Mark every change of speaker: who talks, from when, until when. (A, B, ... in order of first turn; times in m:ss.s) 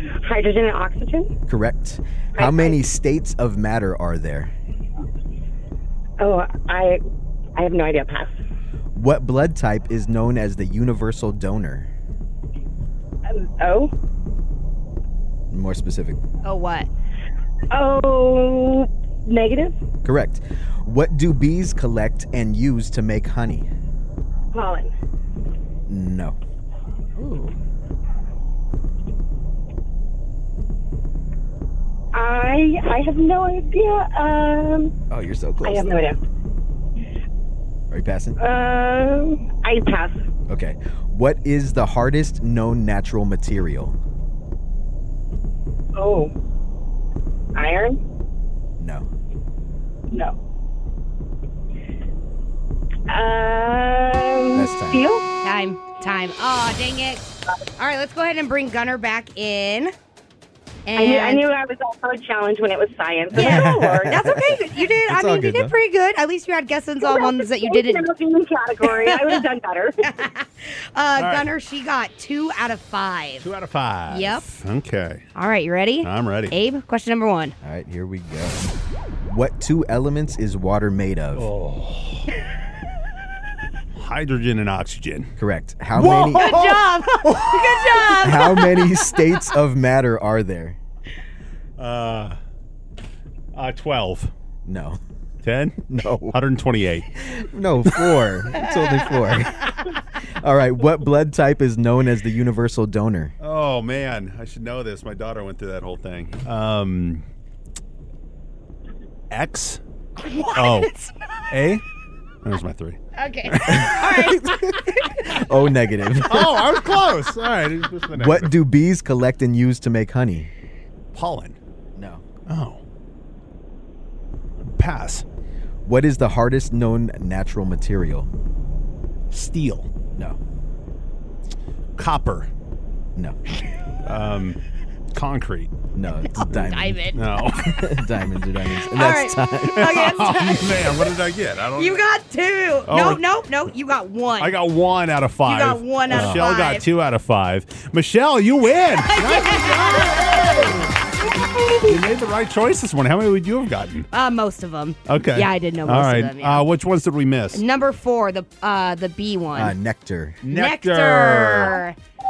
0:00.2-0:01.3 A
0:01.5-0:04.5 B
0:02.4-0:02.9 A
0:06.2-0:07.0 A
0:07.6-0:08.3 A
0:08.9-0:11.9 B
0:13.3-0:13.9 A
0:15.5-0:16.2 B
0:16.4-0:16.9 C
0:17.7-0:19.8 A
0:20.0-0:23.7 B
0:24.5-0:24.9 A
0:25.9-0:26.4 B
0:27.2-0:27.5 B
0:32.1-0:34.9 A
0:35.1-0:36.0 B
0:35.6-0:36.2 A
0:37.9-0:38.4 B
0:38.4-0:40.2 A
0:40.5-0:43.9 B
0:45.9-0:46.3 A
0:47.5-0:48.0 A
0:48.8-0:49.0 B
0:53.1-0:55.2 A
0:54.5-0:55.0 B
0:55.4-0:59.9 C
1:00.9-1:01.4 C
1:01.0-1:04.2 A
1:03.3-1:05.7 B
1:03.3-1:08.1 C
1:07.0-1:10.0 A
1:08.8-1:09.4 C
1:10.0-1:13.4 C
1:11.2-1:11.5 D
1:13.4-1:15.2 D
1:14.1-1:14.4 C
1:15.4-1:17.5 C
1:16.0-1:16.5 D
1:17.6-1:18.6 B
1:19.2-1:21.5 B
1:21.4-1:22.2 D
1:24.0-1:25.3 D
1:25.4-1:26.6 B
1:25.9-1:28.2 D
1:26.0-1:28.8 C
1:28.2-1:30.8 B
1:31.8-1:32.4 D
1:33.5-1:34.3 D
1:34.6-1:35.0 B
1:35.4-1:37.1 D
1:35.9-1:36.4 B
1:37.4-1:39.7 B
1:37.9-1:38.2 D
1:40.4-1:43.3 B
1:43.4-1:47.2 D
1:49.3-1:49.8 D
1:50.2-1:51.1 C
1:50.5-1:50.9 D
1:51.5-1:51.8 D
1:52.4-1:54.1 D
1:53.2-1:55.2 C
1:53.7-1:56.8 B
1:56.2-1:58.6 D
1:58.1-2:00.5 B
2:01.1-2:01.6 D
2:01.9-2:02.2 B
2:02.5-2:02.8 D
2:04.6-2:05.2 D
2:05.8-2:08.3 B
2:09.3-2:09.9 D
2:12.0-2:12.5 D
2:14.0-2:14.6 D
2:15.1-2:15.8 D
2:15.9-2:17.0 B
2:16.2-2:17.2 C
2:17.1-2:18.0 D
2:17.6-2:19.9 B
2:18.9-2:21.1 C
2:19.7-2:22.0 D
2:21.8-2:24.6 C
2:22.8-2:23.2 D
2:24.4-2:30.9 D
2:25.4-2:26.8 C
2:29.0-2:30.3 C
2:31.8-2:34.1 D
2:34.1-2:36.6 C
2:35.1-2:37.6 D
2:37.5-2:39.7 C
2:39.6-2:40.4 B
2:40.4-2:41.8 D
2:40.4-2:42.0 C